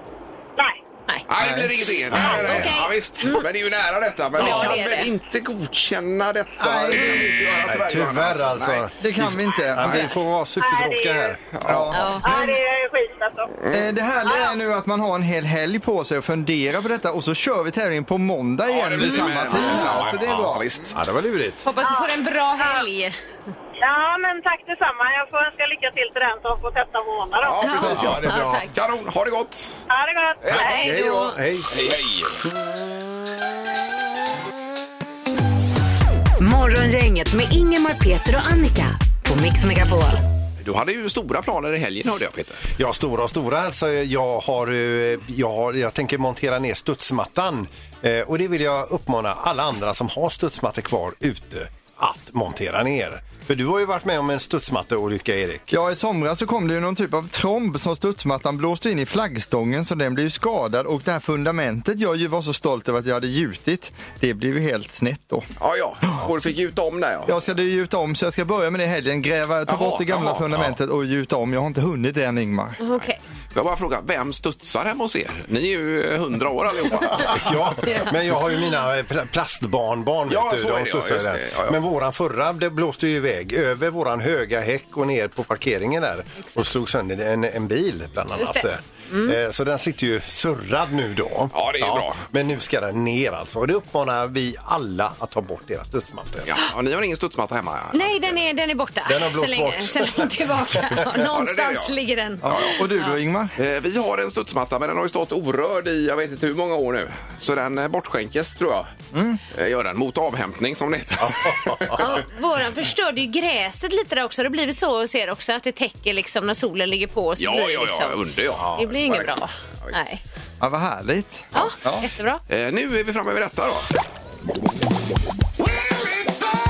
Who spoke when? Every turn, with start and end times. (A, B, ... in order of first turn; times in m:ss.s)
0:01.3-0:08.9 A
0:01.4-0:01.7 B
0:02.1-0:02.8 C
0:02.2-0:03.5 D
0:04.4-0:04.8 C
0:04.4-0:05.1 D
0:06.6-0:07.3 B
0:07.0-0:11.5 C
0:09.0-0:10.1 B
0:10.6-0:11.4 E
0:11.5-0:12.0 A
0:11.6-0:12.6 B
0:11.9-0:12.4 D
0:12.2-0:13.6 E
0:13.5-0:13.9 A
0:13.7-0:21.0 B
0:14.3-0:14.6 E
0:18.7-0:21.0 A
0:19.0-0:19.9 D
0:20.9-0:21.7 C
0:21.6-0:23.2 D
0:21.8-0:22.8 E
0:23.8-0:27.8 E
0:27.4-0:29.8 A
0:27.6-0:28.7 D
0:27.8-0:28.6 B
0:28.0-0:28.4 C
0:29.9-0:30.9 E
0:30.4-0:30.7 A
0:30.5-0:31.8 C
0:30.5-0:31.4 D
0:31.7-0:32.4 A
0:36.4-0:40.2 F
0:40.6-0:42.7 A
0:42.8-0:55.7 C
0:55.7-1:05.5 B
1:05.6-1:07.4 A
1:07.3-1:12.8 B
1:09.7-1:10.6 A
1:12.8-1:13.2 D
1:13.0-1:17.6 A
1:17.1-1:36.5 C
1:20.3-1:21.8 A
1:28.4-1:29.4 D
1:31.5-1:32.2 A
1:36.5-1:38.3 A
1:37.9-1:43.1 D
1:39.1-1:41.1 C
1:41.3-1:42.0 A
1:42.4-1:43.6 B
1:42.5-1:42.8 A
1:43.6-1:48.9 A
1:49.1-1:49.4 B
1:49.5-1:52.2 A
1:51.2-1:52.2 C
1:52.0-1:58.2 D
1:57.4-1:59.3 A
1:58.5-1:59.2 C
1:58.8-2:00.2 D
2:00.6-2:02.1 B
2:01.5-2:02.4 D
2:02.5-2:03.9 A